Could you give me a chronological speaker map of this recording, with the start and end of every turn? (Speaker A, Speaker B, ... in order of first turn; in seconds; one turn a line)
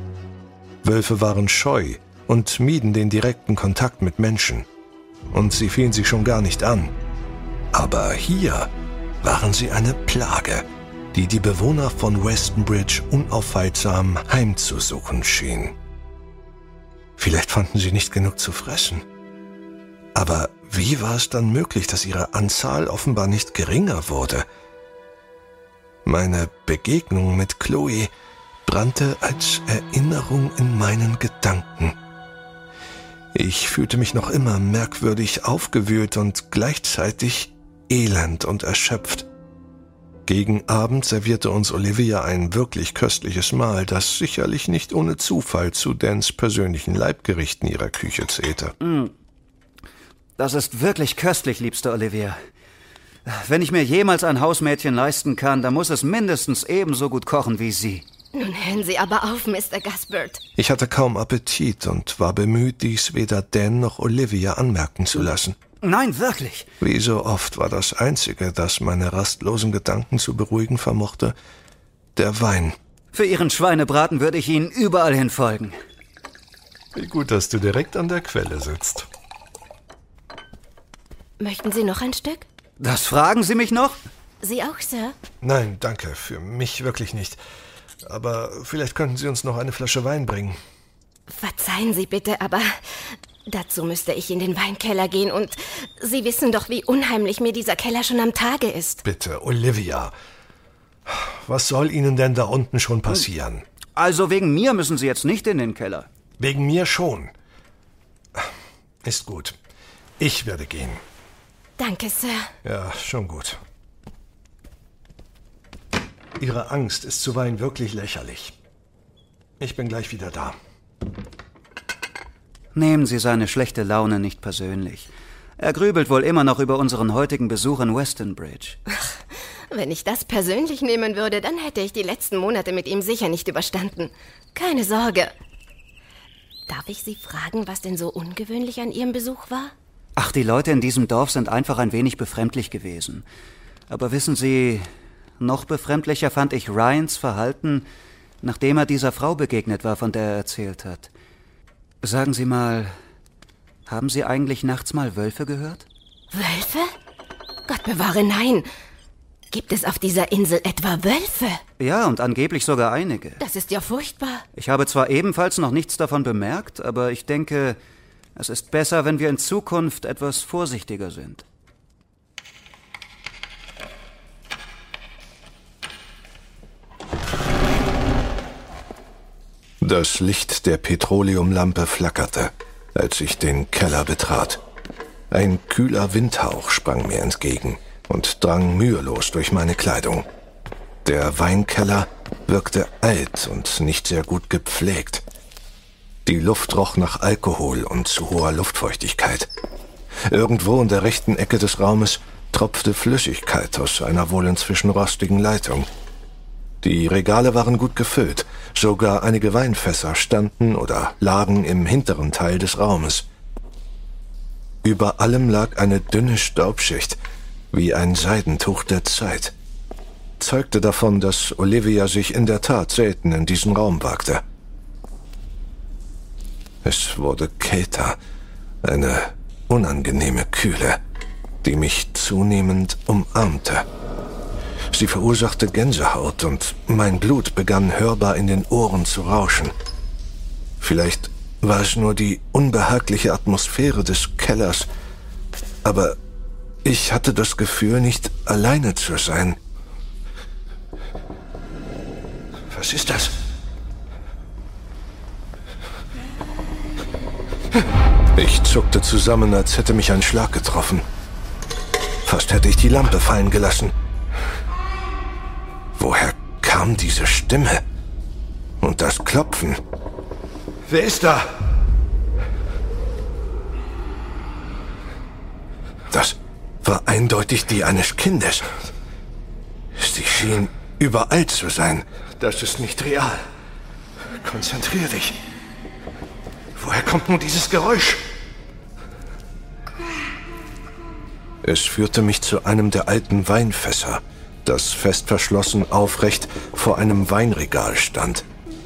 Speaker A: 0.8-4.7
Speaker A: 5.3-6.9
Speaker A: 7.7-8.7
Speaker A: 9.2-15.8
Speaker A: 17.2-19.0
Speaker A: 20.1-24.5
Speaker A: 26.1-28.1
Speaker A: 28.7-32.0
Speaker A: 33.3-39.3
Speaker A: 40.3-48.8
Speaker B: 48.8-49.1
Speaker B: 50.4-52.4
Speaker B: 53.3-58.0
Speaker C: 58.3-60.4
Speaker A: 60.6-65.6
Speaker B: 65.8-66.7
Speaker A: 66.8-71.3
Speaker A: 72.2-72.8
Speaker B: 73.1-75.8
Speaker A: 77.0-79.1
Speaker C: 81.4-82.5
Speaker B: 82.8-84.0
Speaker C: 84.4-85.2
Speaker A: 85.4-87.4
Speaker A: 88.0-90.6
Speaker C: 91.3-99.0
Speaker A: 99.0-100.1
Speaker A: 101.1-103.7
Speaker B: 104.0-106.1
Speaker A: 106.4-107.3
Speaker A: 109.0-109.6
Speaker A: 110.2-111.0
Speaker C: 111.8-112.5
Speaker A: 112.6-113.6
Speaker A: 116.4-118.5
Speaker A: 119.6-120.6
Speaker B: 122.7-128.8
Speaker C: 129.7-135.3
Speaker C: 136.7-139.7
Speaker B: 140.2-143.3
Speaker B: 143.9-144.9
Speaker B: 145.4-147.9
Speaker B: 148.4-151.1
Speaker B: 152.0-152.9
Speaker B: 153.9-155.9
Speaker C: 156.3-156.9
Speaker C: 157.7-158.7
Speaker C: 159.5-161.6
Speaker B: 161.8-163.4
Speaker C: 163.4-164.4
Speaker B: 164.6-167.8
Speaker B: 168.4-171.4
Speaker A: 179.8-184.6
Speaker A: 185.3-190.3
Speaker A: 191.1-195.2
Speaker A: 196.3-199.5
Speaker A: 200.3-205.9
Speaker A: 206.8-213.3
Speaker A: 214.8-217.2
Speaker A: 217.7-219.5
Speaker A: 220.4-224.4
Speaker A: 226.8-228.2
Speaker A: 228.8-231.0
Speaker A: 231.6-233.9
Speaker A: 234.9-239.7
Speaker A: 240.8-244.9
Speaker A: 245.8-246.2
Speaker A: 246.8-249.6
Speaker A: 252.7-253.3
Speaker A: 258.4-261.1
Speaker A: 262.3-263.9
Speaker A: 265.9-267.8
Speaker A: 268.8-269.8
Speaker A: 270.9-271.5
Speaker A: 276.1-278.9
Speaker A: 279.9-283.5
Speaker A: 284.4-285.4
Speaker A: 286.8-288.2
Speaker A: 291.6-298.4